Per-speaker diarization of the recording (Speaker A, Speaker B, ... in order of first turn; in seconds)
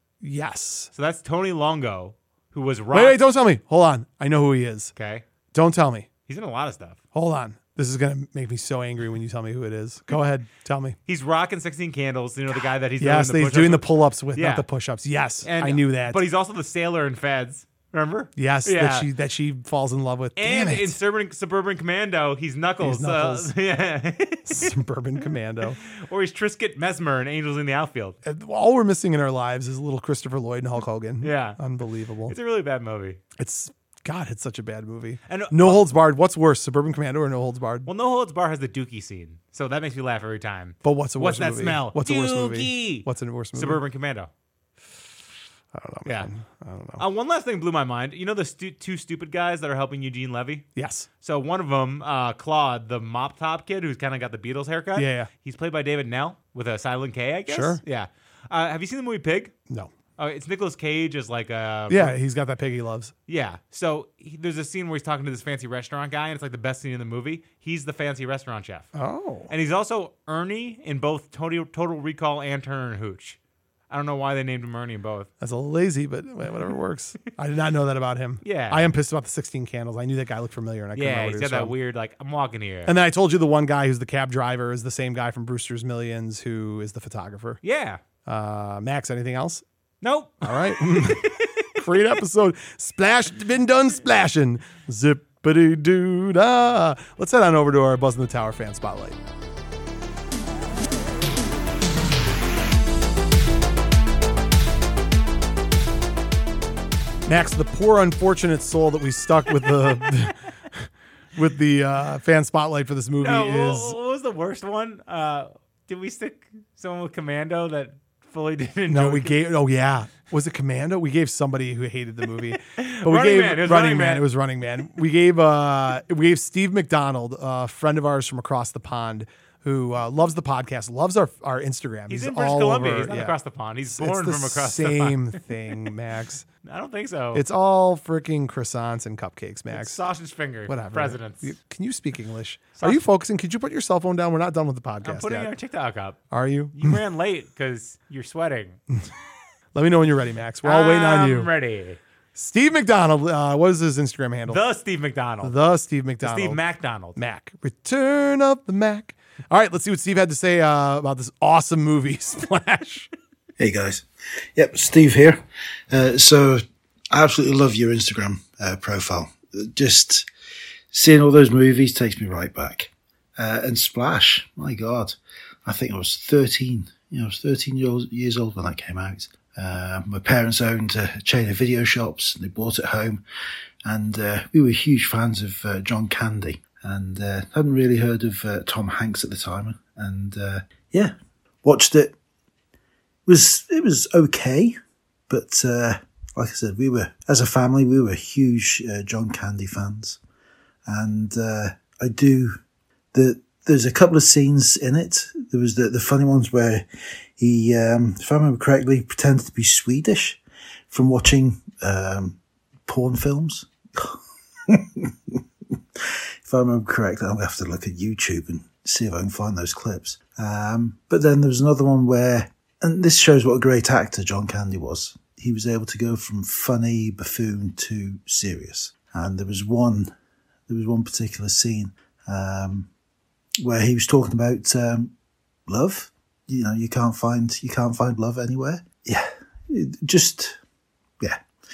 Speaker A: 0.2-0.9, 2.9-4.9, 5.5-6.1, 7.1-11.0, 13.0-16.2, 18.4-20.9, 22.8-23.5, 24.5-25.8, 28.2-32.4, 33.4-37.9, 40.8-43.8, 45.7-47.0, 50.8-51.1, 55.0-55.3, 57.5-57.8, 61.9-63.1, 68.9-69.5, 75.4-81.8, 82.9-87.6, 88.3-89.6, 90.4-99.2, 107.3-114.0, 118.9-133.4, 133.9-136.4, 137.3-140.0, 140.7-145.5, 146.3-147.0, 149.8-151.5, 152.3-154.6, 155.4-156.6, 157.2-163.1
Speaker B: 0.9-3.2, 5.0-5.2, 6.3-7.0, 11.1-14.7, 15.4-19.1, 20.4-24.7, 25.8-28.2, 31.2-31.6, 32.3-33.2, 35.3-35.8, 37.9-44.3, 46.0-46.3, 47.0-50.7, 51.2-59.5, 60.2-62.2, 63.3-68.9, 69.5-73.4, 73.9-75.3, 78.4-78.9, 81.0-82.9, 87.6-88.0, 90.0-91.8, 113.2-119.4, 122.7-124.3, 132.1-135.4, 136.6-137.4, 139.7-141.5, 145.0-146.2, 146.7-148.8, 150.6-152.0, 154.5-155.6, 156.2-157.2
Speaker C: 163.6-170.3, 170.9-183.2, 183.8-192.1, 193.3-194.8, 195.3-200.2, 200.9-202.6, 203.1-206.8, 207.4-215.4, 216.4-230.1, 230.7-232.9, 233.6-235.1, 235.7-240.6